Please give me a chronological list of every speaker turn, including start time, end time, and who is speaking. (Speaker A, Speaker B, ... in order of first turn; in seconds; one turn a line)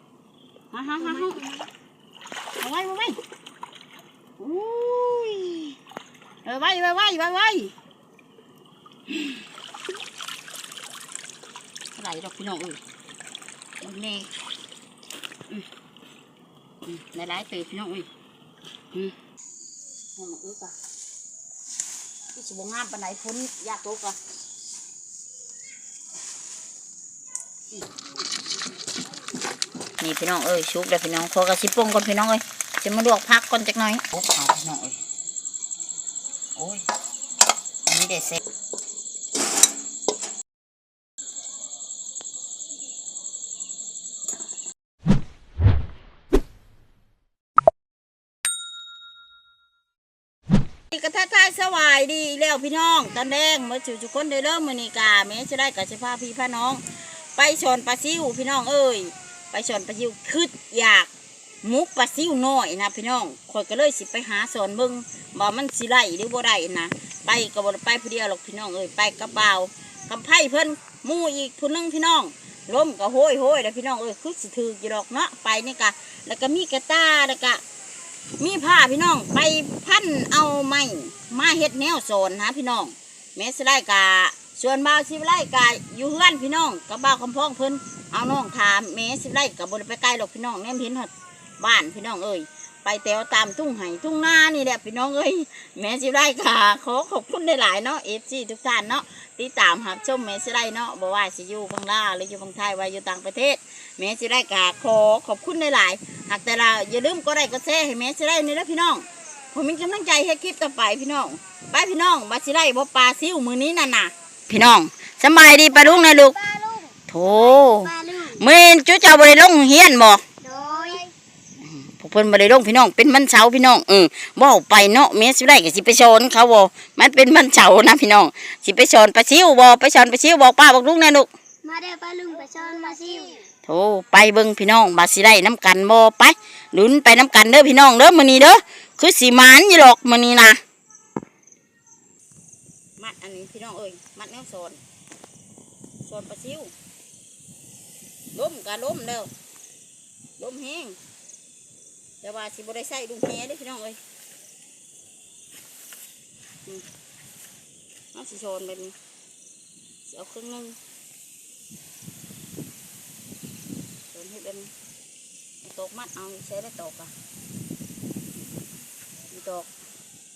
Speaker A: 0.7-1.4
Speaker B: 1.0-1.7
Speaker A: 2.6-3.2
Speaker A: 4.4-5.8
Speaker A: 6.4-7.7
Speaker A: 9.1-9.3
Speaker A: 12.0-12.8
Speaker A: 13.8-14.3
Speaker A: 16.8-18.1
Speaker A: 20.1-20.7
Speaker A: 22.3-24.2
Speaker A: 30.0-35.0
Speaker A: 36.6-36.9
Speaker A: 37.9-38.4
Speaker A: 50.9-61.1
Speaker A: 61.6-77.6
Speaker A: 78.4-116.4
Speaker B: 115.9-116.9
Speaker A: 117.1-120.2
Speaker B: 117.6-118.4
Speaker B: 120.4-121.1
Speaker A: 121.6-131.3
Speaker B: 131.6-133.4
Speaker A: 133.6-140.6
Speaker A: 143.0-144.8
Speaker A: 146.0-146.7
Speaker A: 148.3-149.3
Speaker A: 150.4-151.0
Speaker A: 152.2-154.0
Speaker A: 158.1-158.9
Speaker A: 160.1-160.8
Speaker A: 164.1-164.7
Speaker A: 165.6-167.1
Speaker A: 169.3-169.7